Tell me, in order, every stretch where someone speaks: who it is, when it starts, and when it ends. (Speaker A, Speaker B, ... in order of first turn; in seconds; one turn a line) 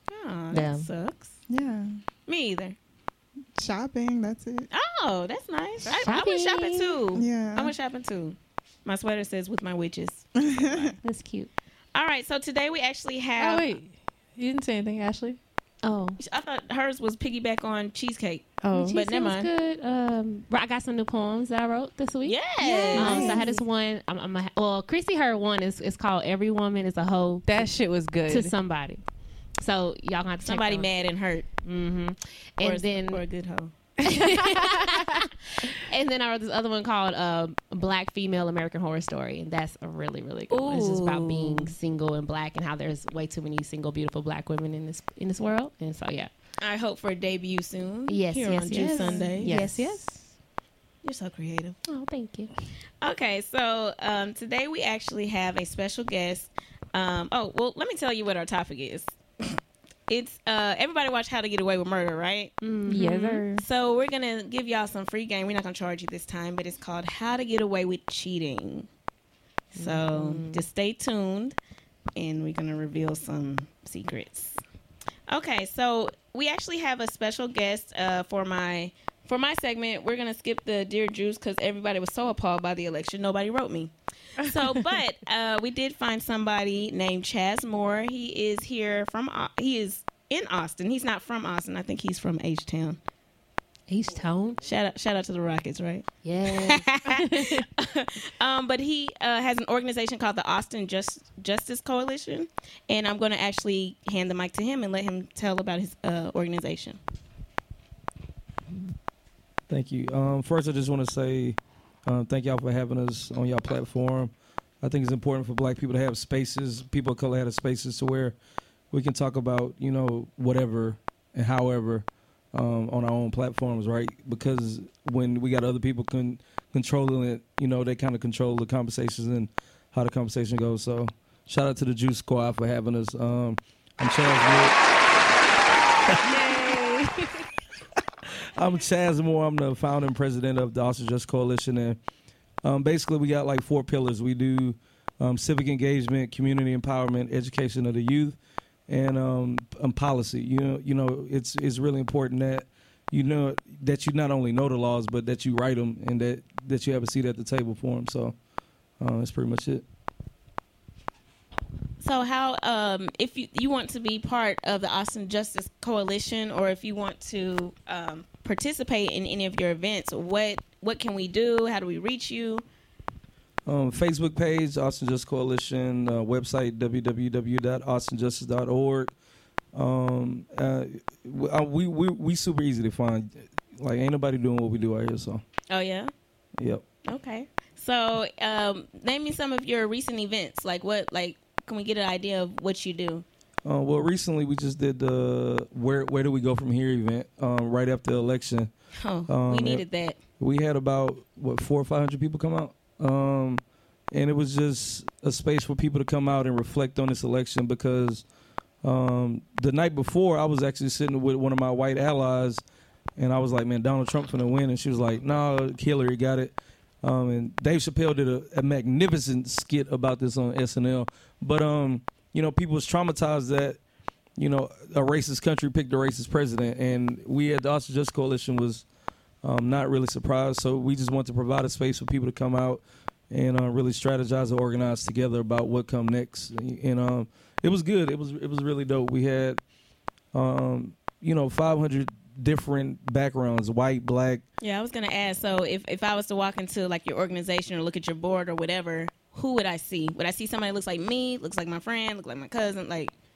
Speaker A: 0.1-1.3
Speaker B: 0.5-0.9
Speaker C: 1.5-1.9
Speaker A: 2.3-2.8
Speaker C: 3.6-4.7
Speaker A: 4.7-11.0
Speaker D: 5.9-7.0
Speaker C: 7.2-7.7
Speaker C: 10.4-10.9
Speaker D: 11.0-11.5
Speaker A: 11.9-13.7
Speaker B: 13.4-15.4
Speaker D: 15.8-16.2
Speaker A: 16.2-19.5
Speaker B: 18.6-19.0
Speaker D: 18.7-27.7
Speaker A: 22.2-23.5
Speaker C: 22.7-23.6
Speaker B: 27.5-28.5
Speaker D: 28.3-29.0
Speaker D: 29.6-30.9
Speaker A: 30.4-31.6
Speaker D: 31.6-33.2
Speaker A: 32.6-33.7
Speaker B: 34.0-35.2
Speaker D: 34.1-46.3
Speaker A: 40.5-41.7
Speaker A: 46.6-49.6
Speaker D: 48.1-50.1
Speaker B: 48.8-50.1
Speaker A: 51.0-51.8
Speaker D: 51.9-52.5
Speaker A: 53.0-68.9
Speaker D: 62.6-63.4
Speaker B: 62.9-63.6
Speaker A: 69.7-71.6
Speaker D: 69.8-70.6
Speaker A: 72.2-74.6
Speaker A: 75.3-93.0
Speaker D: 93.9-94.6
Speaker A: 94.6-107.0
Speaker D: 96.2-96.9
Speaker B: 97.0-97.7
Speaker E: 109.7-118.4
Speaker E: 118.9-134.8
Speaker B: 136.3-137.3
Speaker E: 138.6-142.0
Speaker E: 142.6-148.4
Speaker E: 148.9-158.4
Speaker E: 159.0-159.8
Speaker A: 162.0-172.6
Speaker E: 173.7-179.1
Speaker E: 179.7-185.4
Speaker A: 185.7-186.1
Speaker E: 186.6-186.8
Speaker A: 187.1-193.2
Speaker E: 193.7-198.7
Speaker A: 199.0-200.2
Speaker E: 199.3-199.8
Speaker E: 200.4-208.2
Speaker E: 208.8-212.6
Speaker E: 213.2-223.8
Speaker E: 224.4-228.8
Speaker E: 229.4-239.6
Speaker E: 240.3-244.4
Speaker A: 244.6-253.1